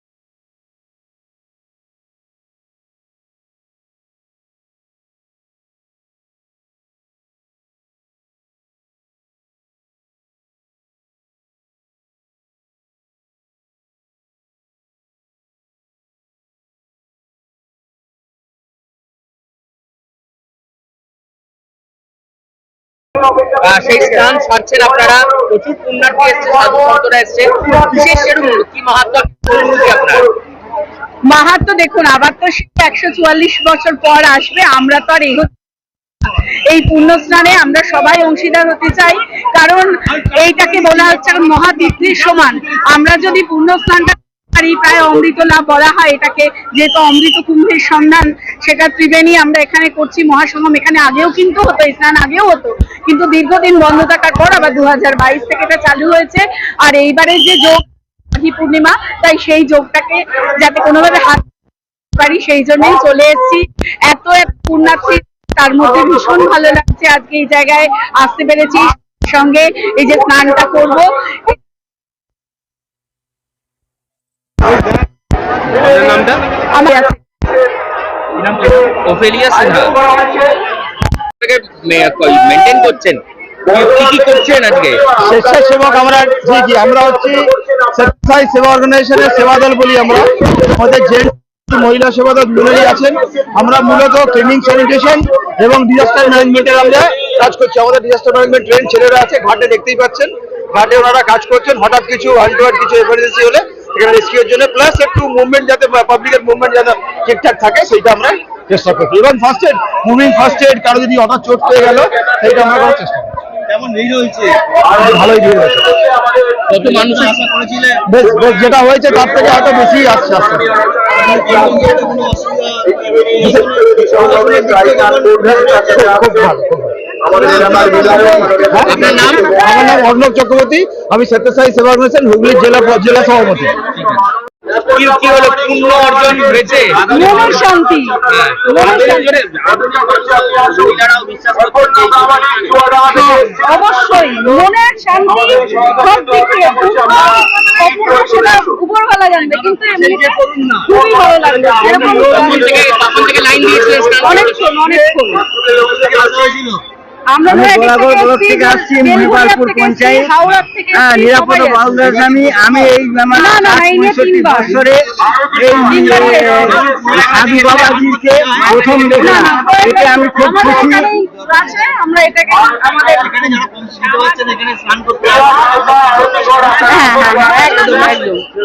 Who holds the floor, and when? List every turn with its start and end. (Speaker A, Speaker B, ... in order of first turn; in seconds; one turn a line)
Speaker A: 23.6-30.3
Speaker B: 31.2-35.5
Speaker B: 36.3-61.5
Speaker B: 62.2-71.6
Speaker A: 75.8-76.4
Speaker B: 76.7-77.2
Speaker A: 78.4-80.0
Speaker A: 81.4-85.1
Speaker C: 85.2-113.4
Speaker D: 113.7-114.7
Speaker C: 114.9-116.0
Speaker A: 116.7-117.5
Speaker D: 116.8-118.0
Speaker C: 118.1-120.7
Speaker D: 121.1-125.4
Speaker C: 123.4-123.6
Speaker C: 125.3-127.2
Speaker D: 127.3-128.8
Speaker C: 127.8-133.7
Speaker A: 128.9-129.5
Speaker A: 134.0-134.2
Speaker A: 134.8-137.5
Speaker B: 137.1-139.3
Speaker A: 138.3-143.1
Speaker B: 143.1-152.9
Speaker A: 149.6-150.9
Speaker A: 151.8-154.9
Speaker B: 154.2-155.5
Speaker D: 155.9-156.8
Speaker B: 157.3-162.2
Speaker E: 157.5-160.4
Speaker E: 160.9-171.1
Speaker B: 163.3-164.8
Speaker B: 165.9-166.9
Speaker D: 165.9-169.5
Speaker B: 168.8-173.3
Speaker D: 173.0-176.1
Speaker B: 176.4-178.5